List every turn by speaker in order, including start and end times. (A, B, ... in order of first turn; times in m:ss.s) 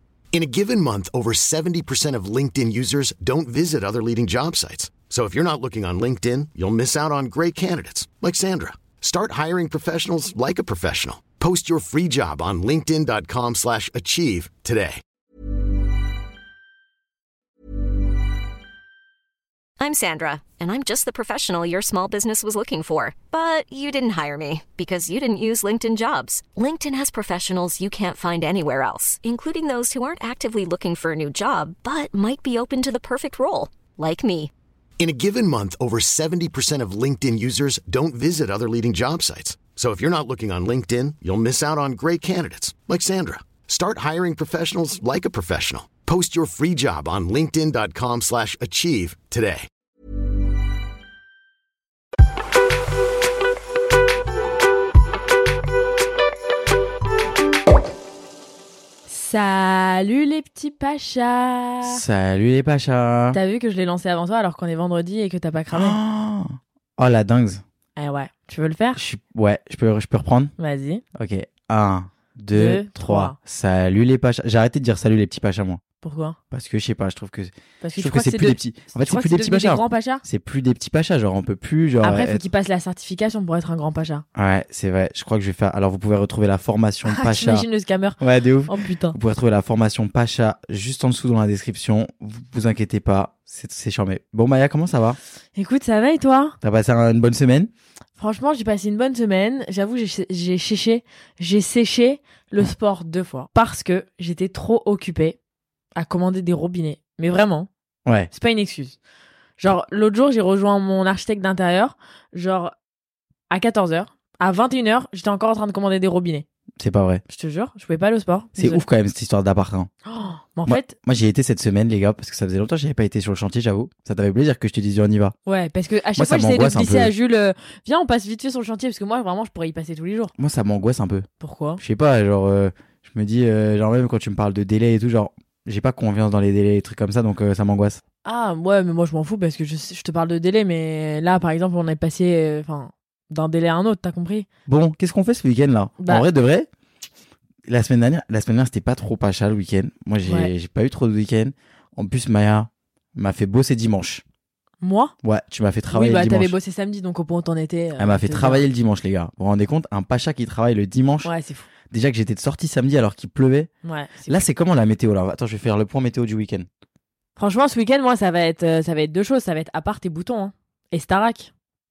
0:00.3-0:15.0 A
0:19.8-0:34.5 B
0:35.0-0:49.7 A
0:59.1-1:02.0 C
1:01.8-1:03.4 D
1:03.3-1:06.0 C
1:05.7-1:07.6 D
1:08.0-1:09.0 C
1:08.9-1:10.5 D
1:10.6-1:11.0 C
1:11.2-1:15.8 D
1:12.5-1:13.4 C
1:16.0-1:16.4 C
1:16.5-1:22.4 D
1:17.8-1:20.2 C
1:22.0-1:24.2 C
1:24.4-1:27.7 D
1:27.0-1:29.2 C
1:28.2-1:35.2 D
1:35.5-1:36.6 C
1:36.6-1:37.7 D
1:38.2-1:45.4 C
1:46.0-1:47.7 C
1:48.3-1:49.0 C
1:49.6-1:52.7 C
1:53.5-1:56.4 C
1:56.8-1:57.2 D
1:57.3-1:58.8 C
1:58.6-1:59.9 D
2:00.0-2:00.9 C
2:00.6-2:05.3 D
2:05.4-2:10.3 C
2:06.1-2:07.1 D
2:10.4-2:11.3 D
2:11.4-2:11.8 C
2:11.8-2:18.0 D
2:18.2-2:24.4 C
2:24.7-2:26.7 D
2:26.0-2:26.3 C
2:27.7-2:34.2 D
2:30.2-2:30.5 C
2:34.8-2:35.1 C
2:35.2-2:36.6 D
2:35.9-2:38.6 C
2:38.0-2:41.3 D
2:41.2-2:41.7 C
2:41.9-2:43.7 D
2:43.8-2:44.4 C
2:44.3-2:46.7 D
2:47.4-2:51.5 C